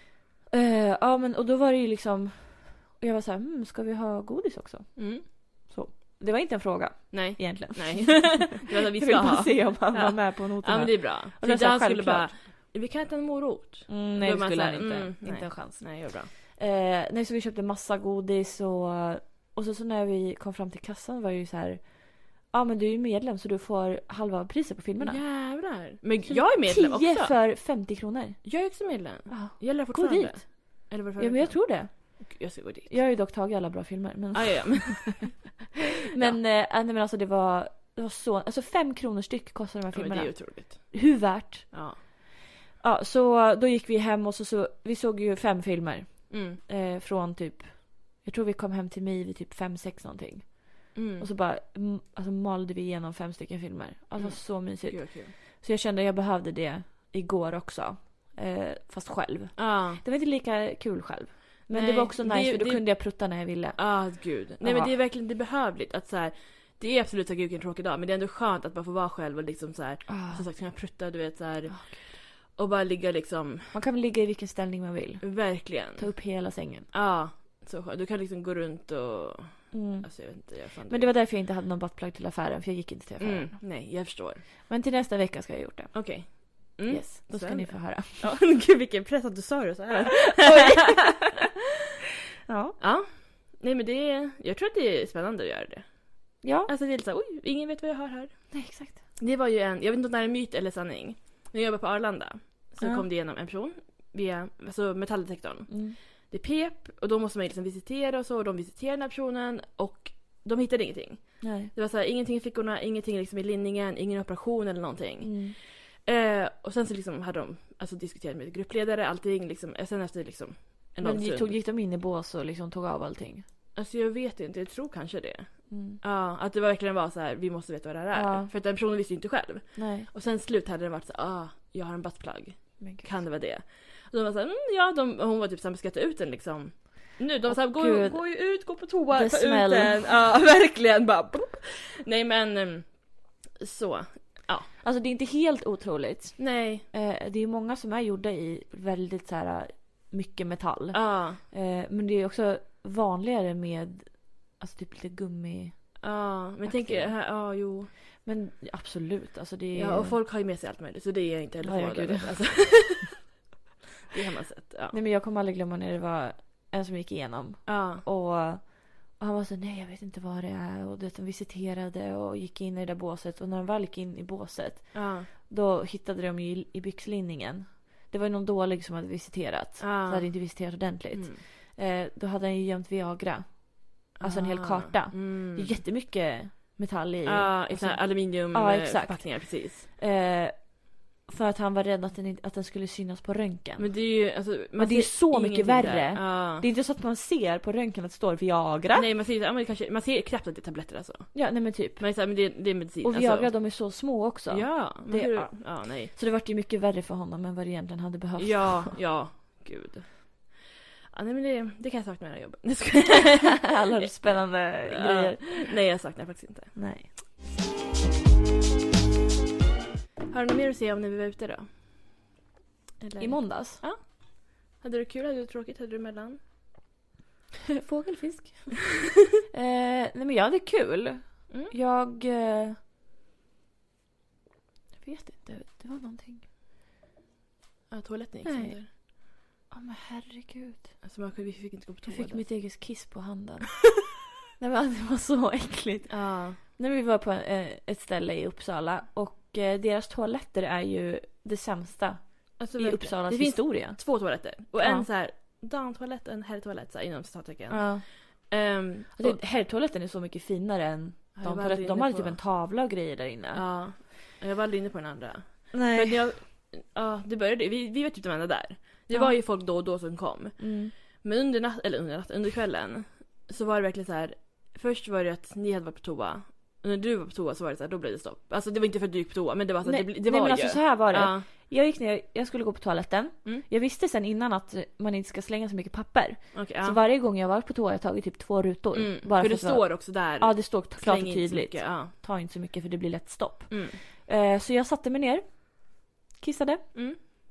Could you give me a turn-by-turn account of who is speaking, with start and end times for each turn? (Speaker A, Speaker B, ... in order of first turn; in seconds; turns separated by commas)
Speaker A: 0.5-12.4, Speaker B: 5.0-5.2, Speaker B: 7.1-16.3, Speaker A: 13.9-25.2, Speaker B: 25.0-27.4, Speaker A: 26.2-32.4, Speaker B: 28.4-33.0, Speaker A: 32.9-35.4, Speaker B: 34.3-35.5, Speaker A: 36.1-42.0, Speaker B: 39.9-42.0, Speaker A: 42.8-64.9, Speaker B: 46.3-46.6, Speaker B: 50.9-51.3, Speaker B: 54.1-55.3, Speaker B: 59.5-60.0, Speaker B: 61.7-73.7, Speaker A: 70.1-70.5, Speaker A: 71.7-72.2, Speaker A: 73.7-76.9, Speaker B: 75.2-81.1, Speaker A: 79.7-83.7, Speaker B: 83.2-84.5, Speaker A: 84.7-88.3, Speaker B: 85.9-91.5, Speaker A: 90.4-91.0, Speaker A: 92.5-92.8, Speaker B: 92.8-121.5, Speaker A: 96.4-96.7, Speaker A: 98.5-99.0, Speaker A: 102.8-103.0, Speaker A: 105.7-106.0, Speaker A: 111.4-111.7, Speaker A: 115.2-115.5, Speaker A: 121.0-123.4, Speaker B: 123.7-144.7, Speaker A: 125.7-126.0, Speaker A: 128.1-128.5, Speaker A: 129.7-130.1, Speaker A: 132.8-133.2, Speaker A: 137.5-140.1, Speaker A: 144.8-156.0, Speaker B: 146.4-146.8, Speaker B: 150.9-151.4, Speaker B: 156.0-157.9, Speaker A: 156.6-157.2, Speaker A: 158.2-160.2, Speaker B: 159.7-163.3, Speaker A: 161.6-162.9, Speaker B: 164.1-165.0, Speaker A: 164.9-194.1, Speaker B: 167.7-168.0, Speaker B: 174.9-175.3, Speaker B: 179.8-181.4, Speaker B: 184.2-185.8, Speaker B: 187.2-189.9, Speaker B: 193.8-196.7, Speaker A: 194.7-199.1, Speaker B: 198.9-203.7, Speaker A: 201.3-202.1, Speaker A: 203.0-209.0, Speaker B: 204.5-206.1, Speaker B: 208.4-210.6, Speaker B: 211.1-216.8, Speaker A: 213.6-215.7, Speaker A: 216.7-217.2, Speaker B: 220.3-221.8, Speaker B: 223.0-226.4, Speaker A: 223.2-223.8, Speaker A: 227.7-229.0, Speaker A: 229.5-232.8, Speaker A: 235.0-236.5, Speaker B: 237.9-238.9, Speaker A: 238.4-239.1, Speaker A: 239.7-241.0, Speaker B: 241.0-242.4, Speaker A: 242.1-243.9, Speaker A: 244.6-255.1, Speaker B: 246.1-246.6, Speaker B: 252.6-259.4, Speaker A: 257.7-258.5, Speaker A: 259.1-263.8, Speaker B: 261.3-262.4, Speaker B: 263.5-281.5, Speaker A: 265.7-266.3, Speaker A: 269.1-269.4, Speaker A: 270.6-270.9, Speaker A: 279.8-297.3, Speaker B: 286.5-287.0, Speaker B: 288.9-292.1, Speaker B: 293.7-294.0, Speaker B: 296.9-297.2